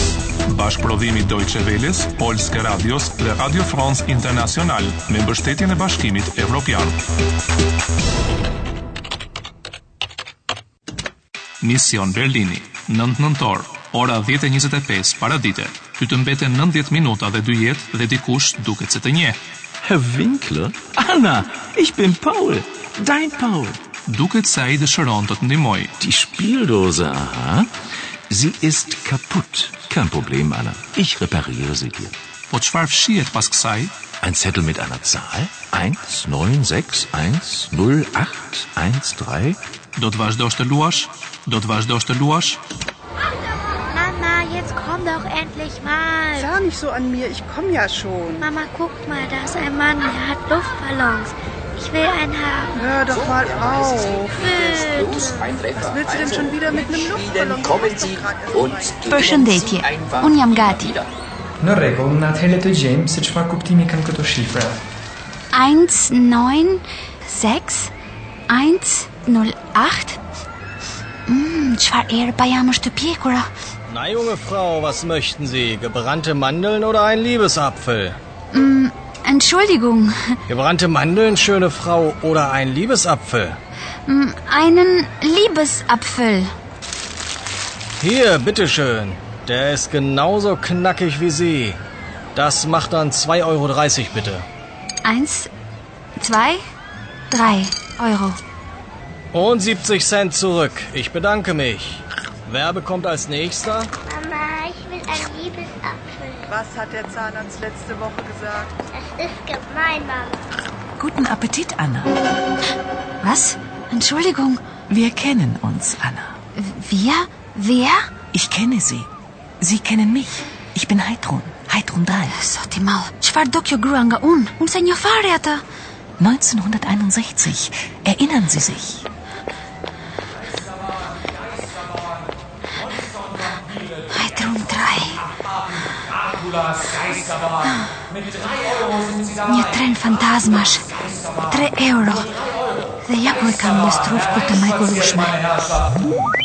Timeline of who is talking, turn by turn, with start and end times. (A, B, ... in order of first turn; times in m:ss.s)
0:00.5-0:07.0 A
0:11.6-0:19.4 A
0:19.8-0:23.8 B
0:24.1-0:25.9 A
0:26.0-0:27.7 B
0:28.3-0:32.2 B
0:32.5-0:33.9 A
0:34.2-0:39.6 B
0:40.0-0:42.6 A
0:43.9-0:46.5 C
0:46.4-0:48.4 D
0:48.4-0:52.8 C
0:52.8-0:59.0 D
0:54.4-0:55.5 C
0:59.0-1:01.0 E
1:01.6-1:04.8 F
1:05.5-1:07.9 E
1:08.5-1:10.2 E
1:11.3-1:13.5 E
1:13.9-1:18.2 G
1:18.5-1:20.4 E
1:20.5-1:23.6 G
1:24.1-1:26.5 E
1:28.0-1:31.8 G
1:32.4-1:34.5 G
1:35.0-1:35.5 E
1:36.2-1:36.6 E
1:37.3-1:38.4 E
1:39.3-1:43.9 G
1:44.1-1:46.5 C
1:46.5-1:48.7 D
1:48.9-1:50.4 C
1:51.0-1:52.1 H
1:53.2-1:54.6 E
1:54.9-1:56.4 H
1:56.6-1:58.0 E
1:58.3-1:59.1 H
1:59.6-2:02.3 H
2:02.3-2:05.6 E
2:06.2-2:09.0 H
2:14.1-2:15.2 E
2:17.4-2:17.9 E
2:19.4-2:20.9 E
2:21.4-2:22.3 E
2:23.0-2:25.6 E